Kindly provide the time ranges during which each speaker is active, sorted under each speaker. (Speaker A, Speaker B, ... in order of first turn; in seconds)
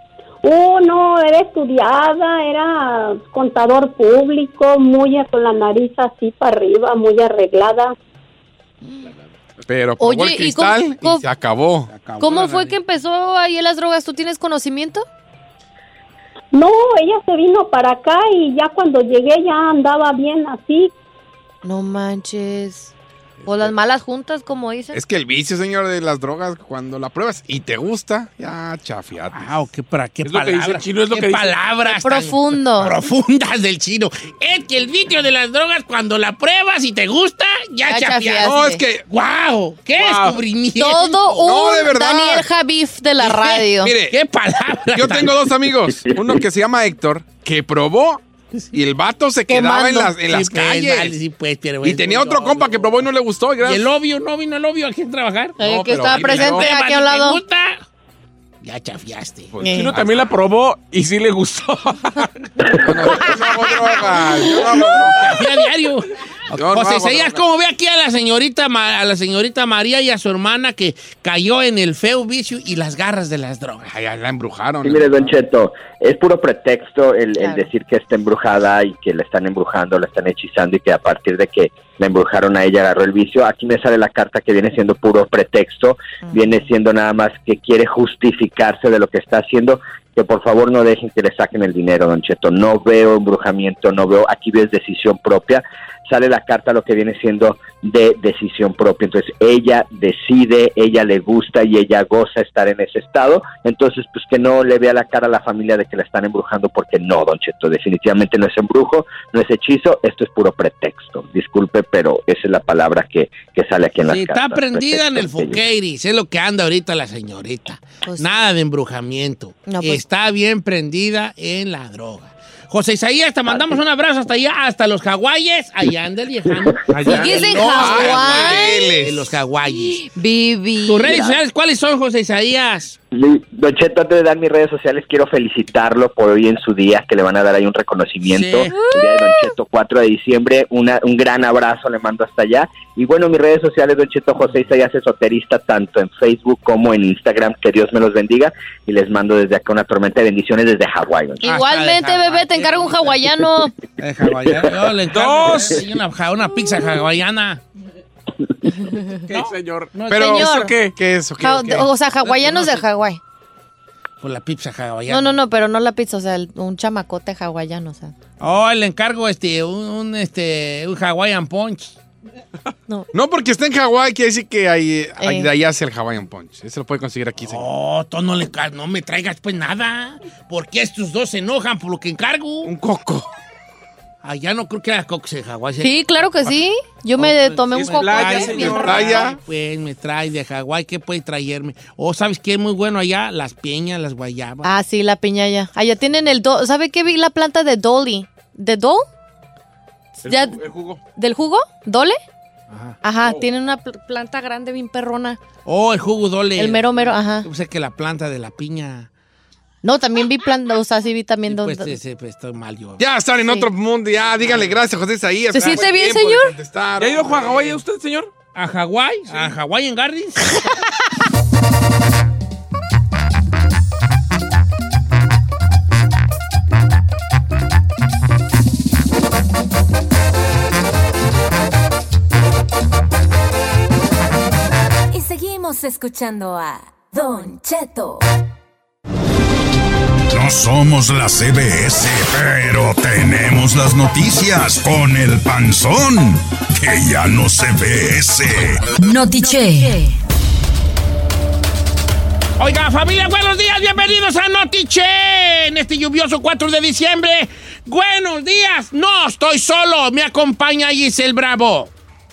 Speaker A: 0.4-7.9, 16.5-20.9
Speaker B: 9.7-11.9, 24.9-29.5, 38.4-39.0, 41.4-42.5, 43.8-44.1, 44.9-48.2, 48.7-51.1, 51.8-53.8, 55.6-56.7, 59.5-60.1, 62.8-65.3, 66.5-67.4, 73.8-75.3, 127.1-129.3, 160.1-161.9, 173.1-177.6, 182.6-183.3, 188.7-189.4, 200.7-201.0, 213.0-217.8
Speaker C: 10.0-11.2, 12.2-15.0, 21.6-22.9, 23.4-25.0, 31.9-33.0, 37.9-38.8, 40.8-43.9, 49.5-50.1, 55.6-57.4, 59.6-59.9, 63.1-63.7, 64.4-64.8, 77.4-77.7, 86.3-86.6, 118.0-118.4, 119.7-120.0, 127.1-128.9, 130.1-131.3, 138.7-139.5, 151.4-153.7, 160.2-160.8, 161.4-163.2, 165.1-168.1, 175.2-175.5, 185.8-189.1, 194.6-199.0, 200.2-200.6, 201.2-202.2, 203.0-205.4, 206.6-207.4, 209.8-211.9, 215.5-216.5
Speaker D: 11.9-12.8, 29.3-41.4, 43.2-45.3, 50.3-53.1, 53.6-57.8, 58.6-59.6, 64.8-73.9, 114.0-130.1, 130.8-132.9, 138.2-138.7, 151.4-153.3, 154.0-157.6, 159.3-160.4, 164.2-165.4, 168.4-172.0, 177.4-182.7, 184.2-186.6, 187.2-194.7, 202.7-203.0, 205.6-209.1, 211.4-213.0, 214.4-214.7, 218.5-220.7, 252.6-261.9
Speaker E: 30.3-31.6, 40.0-40.4, 59.6-62.3, 155.1-155.8, 159.3-160.9, 162.3-162.8, 187.8-189.1, 217.0-218.3
Speaker F: 46.1-46.4, 74.8-115.6, 131.1-131.3, 133.1-151.4
Speaker G: 235.1-238.2, 249.0-250.1
Speaker H: 240.3-248.9